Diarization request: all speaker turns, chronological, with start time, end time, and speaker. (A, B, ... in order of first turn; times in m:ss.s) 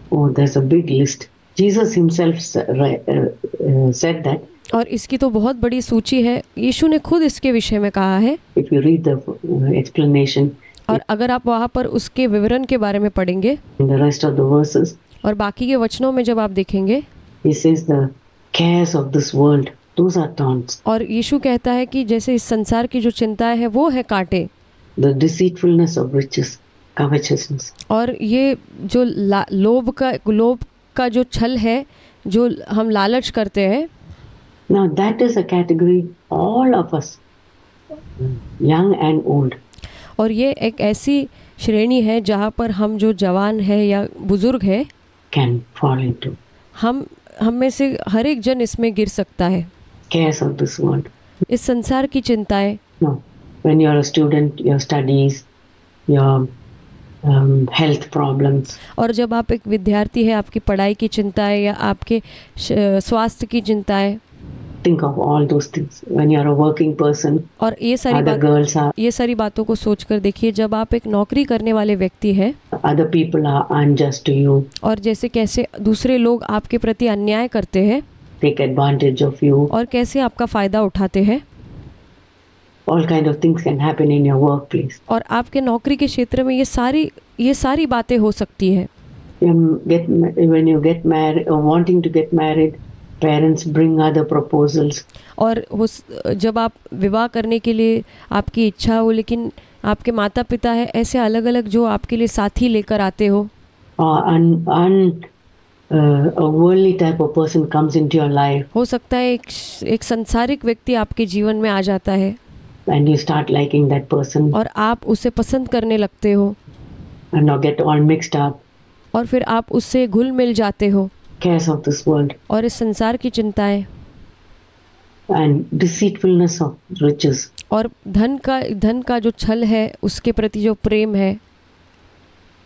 0:00.1-0:04.4 A
0:04.7-0:08.4 B
0:08.6-0:10.6 A
0:10.9-0:13.6 B
0:13.8-0:15.0 A
0:15.2-0:17.0 B
0:17.4-0:20.8 A
0:20.8-0:24.5 B
0:25.0-0:27.7 A
0:27.9-0:33.9 B
0:34.7-0:37.2 A
0:38.2-0:39.6 A
0:40.2-0:44.9 B
0:45.3-0:46.4 A
0:46.8-0:49.7 B
0:50.1-0:51.1 A
0:51.5-0:52.8 B
0:53.0-0:55.5 A
0:56.1-0:56.5 A
0:57.2-0:58.8 A
0:59.0-1:04.2 B
1:04.8-1:07.5 A
1:07.6-1:08.4 B
1:08.1-1:08.9 A
1:09.0-1:12.6 B
1:12.8-1:14.7 A
1:14.8-1:18.0 B
1:18.4-1:19.7 A
1:19.7-1:21.4 B
1:22.9-1:25.0 A
1:25.1-1:28.9 B
1:29.4-1:35.0 A
1:35.4-1:43.5 B
1:44.0-1:45.3 A
1:45.9-1:48.7 A
1:48.7-1:52.4 B
1:52.9-1:54.6 A
1:54.5-1:56.6 B
1:57.3-1:58.6 A
1:59.1-2:01.1 B
2:01.4-2:02.4 A
2:02.5-2:03.9 B
2:05.3-2:07.5 A
2:07.7-2:11.4 B